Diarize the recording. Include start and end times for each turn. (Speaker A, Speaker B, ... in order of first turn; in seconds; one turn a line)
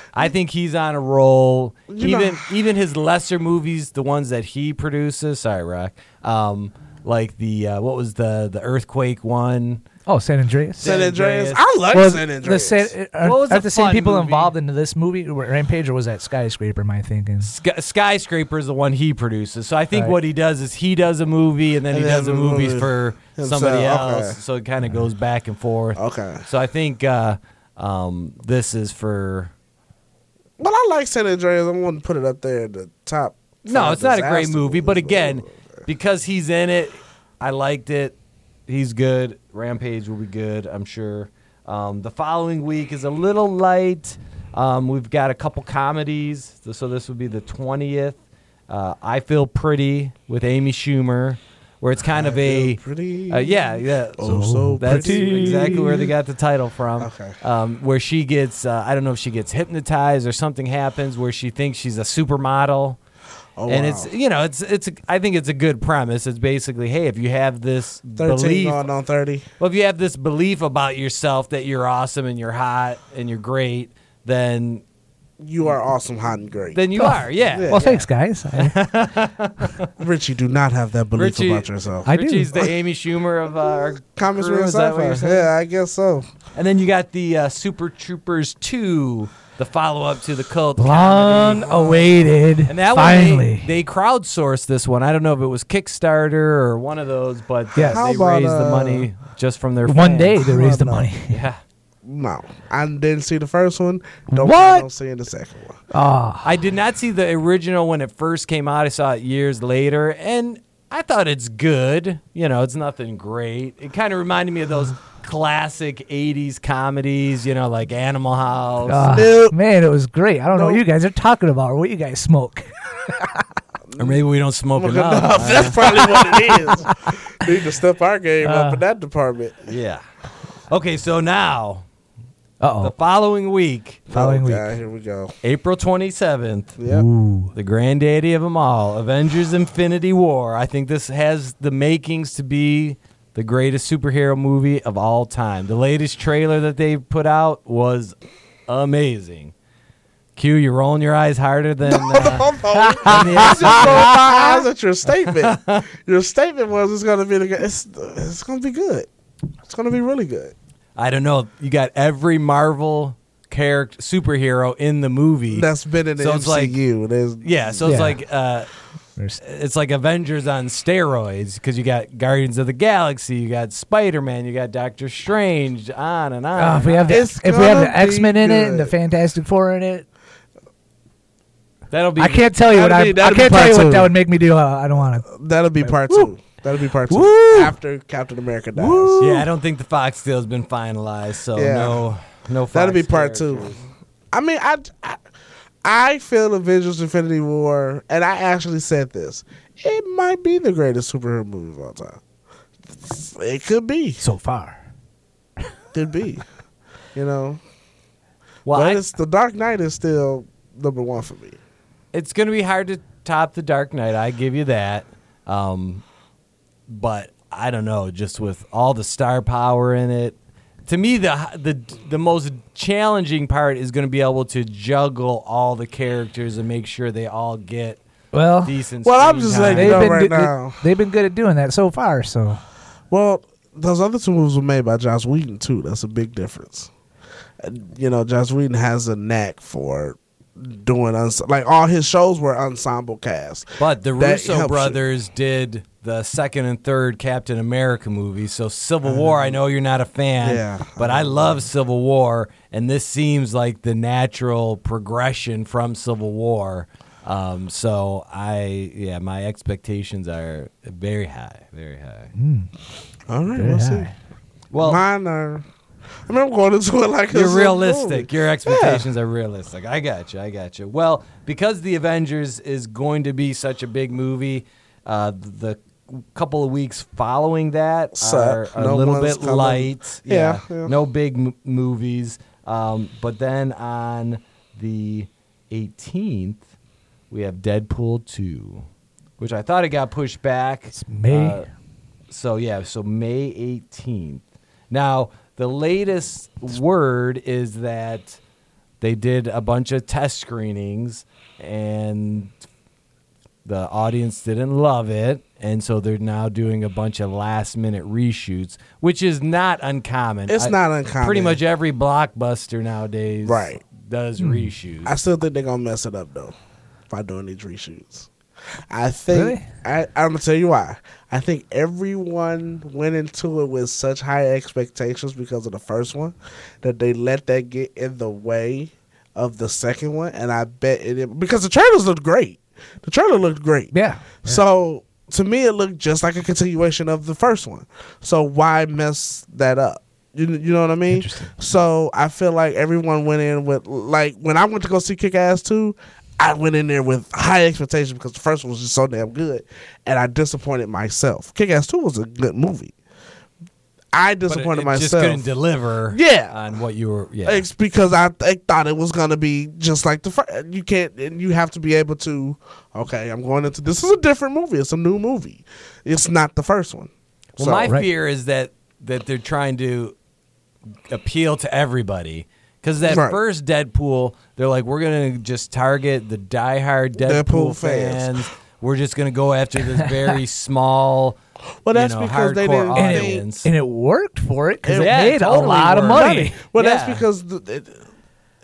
Speaker A: 0.1-9.8
Speaker B: 1.9-2.4
Speaker C: 10.1-10.9
Speaker A: 10.8-11.6
Speaker B: 10.8-12.9
Speaker C: 11.9-17.5
Speaker A: 13.2-14.5
Speaker A: 17.4-29.5
Speaker B: 21.9-24.4
Speaker B: 26.0-26.5
Speaker B: 30.6-35.9
Speaker A: 33.7-38.1
Speaker A: 38.7-48.2
Speaker A: 48.7-63.0
Speaker B: 52.1-56.1
Speaker C: 54.2-56.0
Speaker B: 57.0-57.4
Speaker B: 63.6-64.1
Speaker A: 63.7-68.8
Speaker B: 68.2-69.5
Speaker A: 69.6-74.8
Speaker B: 75.4-76.8
Speaker A: 76.7-79.9
Speaker C: 77.0-78.8
Speaker B: 77.4-77.9
Speaker B: 80.0-82.7
Speaker A: 81.2-85.5
Speaker C: 82.1-82.5
Speaker B: 83.7-86.3
Speaker A: 86.6-92.1
Speaker C: 90.8-93.7
Speaker A: 92.7-100.5
Speaker C: 97.8-98.0
Speaker B: 97.8-99.1
Speaker C: 99.9-101.4
Speaker B: 100.4-101.1
Speaker A: 101.3-101.6
Speaker B: 102.0-105.8
Speaker C: 104.3-104.9
Speaker C: 105.9-106.5
Speaker A: 106.4-119.3
Speaker C: 118.9-123.5
Speaker B: 119.1-119.6
Speaker B: 120.5-120.8
Speaker B: 123.9-124.2
Speaker A: 124.0-126.0
Speaker B: 124.8-129.8
Speaker C: 125.8-127.1
Speaker C: 128.4-128.8
Speaker A: 129.7-130.0
Speaker A: 130.7-131.8
Speaker C: 132.6-132.9
Speaker A: 132.8-134.1
Speaker B: 134.1-135.3
Speaker C: 134.1-134.7
Speaker A: 135.4-136.8
Speaker B: 136.8-137.1
Speaker C: 136.9-137.5
Speaker A: 137.5-148.2
Speaker A: 148.7-149.5
Speaker A: 150.4-154.6
Speaker B: 151.9-159.1
Speaker C: 152.7-154.1
Speaker A: 155.2-155.9
Speaker B: 159.7-160.5
Speaker A: 161.0-166.8
Speaker B: 165.5-168.2
Speaker A: 167.4-168.7
Speaker C: 167.8-168.2
Speaker A: 169.4-177.2
Speaker C: 176.6-180.1
Speaker B: 177.1-178.9
Speaker A: 181.9-182.5
Speaker C: 182.2-185.3
Speaker B: 182.6-184.1
Speaker B: 185.2-189.3
Speaker C: 185.8-186.3
Speaker C: 187.1-187.7
Speaker C: 188.8-189.5
Speaker A: 189.2-193.8
Speaker B: 191.6-192.0
Speaker B: 192.7-193.8
Speaker B: 194.3-195.2
Speaker B: 195.8-202.2
Speaker B: 202.9-204.2
Speaker C: 204.2-204.8
Speaker B: 205.9-206.4
Speaker B: 207.2-207.6
Speaker A: 208.7-209.0
Speaker B: 208.7-211.6
Speaker A: 212.1-216.0
Speaker A: 216.9-228.0
Speaker C: 228.3-228.8
Speaker A: 228.6-230.2
Speaker B: 229.0-230.8
Speaker C: 229.6-232.6
Speaker B: 233.1-236.9
Speaker B: 237.6-245.0
Speaker A: 243.8-262.3
Speaker B: 249.0-249.6
Speaker B: 250.4-251.6
Speaker C: 262.4-262.7
Speaker B: 263.3-264.1
Speaker C: 263.5-264.1
Speaker A: 264.7-265.0
Speaker B: 264.8-265.6
Speaker B: 266.3-269.1
Speaker A: 267.3-286.6
Speaker B: 278.2-280.9
Speaker A: 287.3-288.9
Speaker A: 289.4-291.6
Speaker C: 290.9-291.6
Speaker A: 292.3-298.4
Speaker A: 299.0-302.5
Speaker A: 303.6-315.1
Speaker B: 310.5-311.6
Speaker B: 313.4-313.8
Speaker C: 314.4-314.7
Speaker B: 315.1-316.5
Speaker B: 317.1-318.3
Speaker B: 318.9-333.9
Speaker C: 319.3-319.7
Speaker C: 333.9-334.6
Speaker B: 334.4-352.9
Speaker C: 341.1-341.5
Speaker B: 354.1-355.5
Speaker A: 354.5-357.7
Speaker B: 356.1-356.6
Speaker B: 357.4-367.9
Speaker A: 367.6-370.1
Speaker A: 371.1-381.4
Speaker B: 373.1-373.4
Speaker B: 377.2-378.4
Speaker C: 380.0-380.3
Speaker B: 381.9-383.5
Speaker A: 381.9-383.7
Speaker C: 382.9-386.6
Speaker B: 384.8-385.4
Speaker A: 384.9-387.2
Speaker B: 386.1-388.0